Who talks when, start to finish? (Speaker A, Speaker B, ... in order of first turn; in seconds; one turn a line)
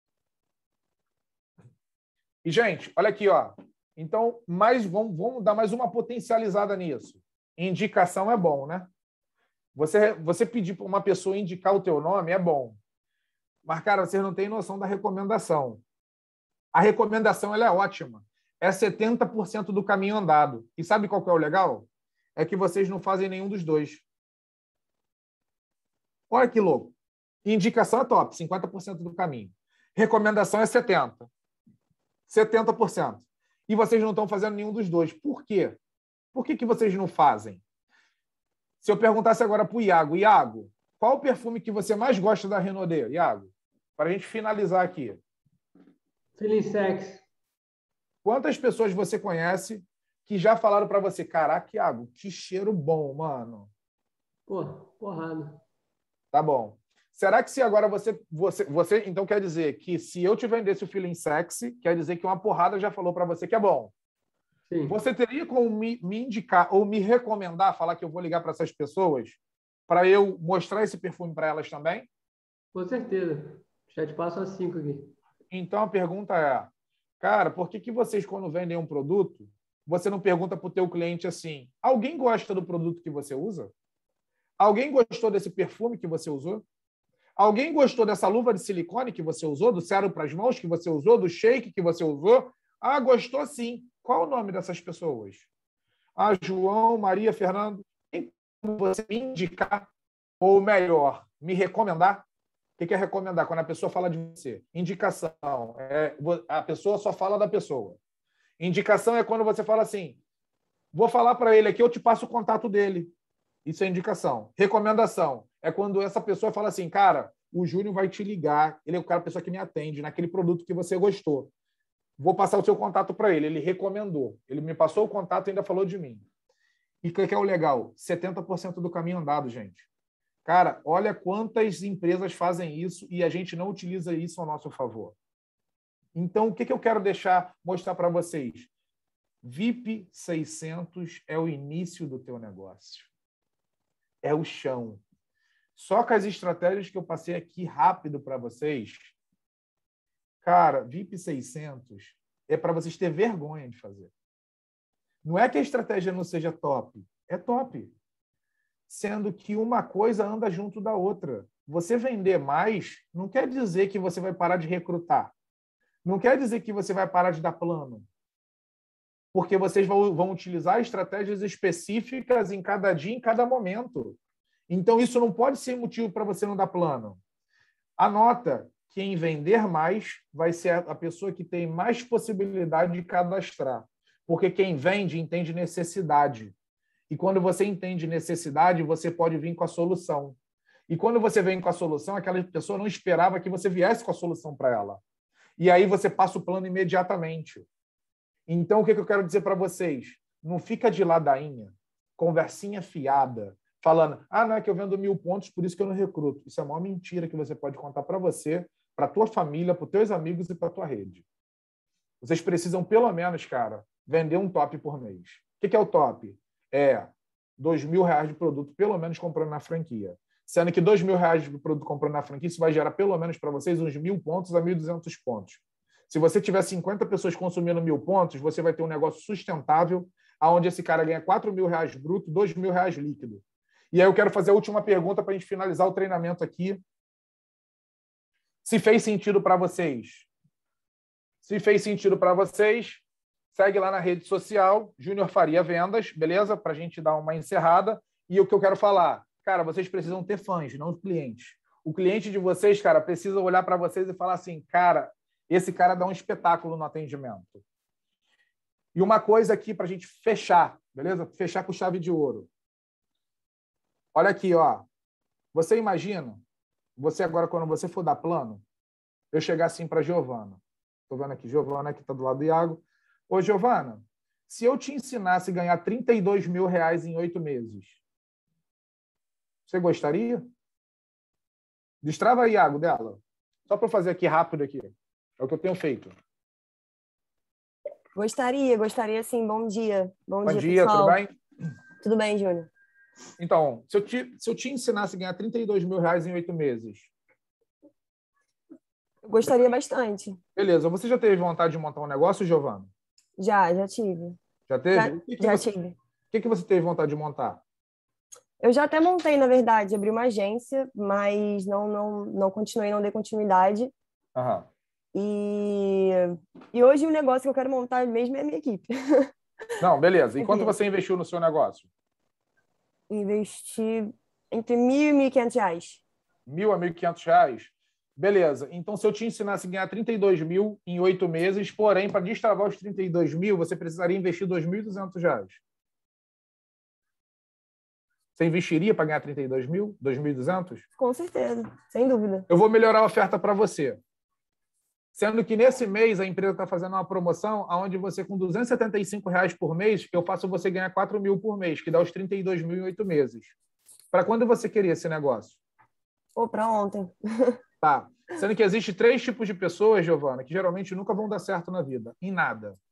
Speaker A: 2.4-8.9
Speaker A: 9.7-12.8
Speaker A: 13.7-15.8
Speaker A: 16.7-24.0
Speaker A: 26.3-26.9
Speaker A: 27.4-31.3
Speaker A: 32.3-35.8
Speaker A: 36.3-37.6
Speaker A: 38.8-45.2
Speaker B: 46.4-47.2
Speaker A: 48.2-53.7
Speaker B: 54.5-55.6
Speaker A: 56.3-63.9
Speaker B: 64.7-65.0
Speaker A: 64.9-72.1
Speaker B: 72.7-75.1
Speaker A: 75.5-83.7
Speaker A: 84.6-86.6
Speaker A: 87.4-95.5
Speaker A: 96.2-99.9
Speaker A: 100.4-102.2
Speaker A: 102.8-108.0
Speaker A: 108.6-110.2
Speaker A: 110.9-113.1
Speaker A: 113.6-121.5
Speaker A: 122.2-126.2
Speaker A: 127.0-129.9
Speaker A: 130.4-135.1
Speaker A: 136.1-138.7
Speaker A: 139.4-143.1
Speaker A: 144.2-145.0
Speaker A: 145.8-149.2
Speaker A: 150.4-154.1
Speaker A: 155.2-157.9
Speaker A: 158.9-165.3
Speaker A: 166.0-168.0
Speaker A: 169.3-174.2
Speaker A: 174.7-177.2
Speaker A: 178.0-186.5
Speaker A: 187.1-190.3
Speaker A: 190.9-195.0
Speaker A: 195.6-197.6
Speaker A: 198.5-211.2
Speaker A: 212.2-236.8
Speaker A: 238.6-240.3
Speaker A: 241.4-257.6
Speaker A: 258.9-262.5
Speaker A: 264.1-264.9
Speaker A: 265.5-266.4
Speaker A: 267.0-268.6
Speaker A: 269.3-278.0
Speaker A: 279.7-280.4
Speaker A: 282.0-286.1
Speaker C: 288.1-291.2
Speaker A: 290.4-291.3
Speaker C: 292.0-292.7
Speaker A: 293.4-297.1
Speaker C: 299.2-300.4
Speaker A: 300.5-302.9
Speaker C: 303.4-304.4
Speaker A: 304.7-305.7
Speaker C: 304.9-305.9
Speaker A: 306.3-307.6
Speaker C: 308.6-313.9
Speaker A: 314.3-314.7
Speaker C: 315.1-319.3
Speaker A: 319.8-321.9
Speaker C: 320.4-320.7
Speaker C: 323.1-326.0
Speaker A: 326.5-335.6
Speaker A: 338.4-340.8
Speaker C: 341.0-342.5
Speaker A: 342.5-344.0
Speaker A: 345.1-353.6
Speaker A: 354.1-355.6
Speaker C: 356.4-357.6
Speaker A: 357.8-362.8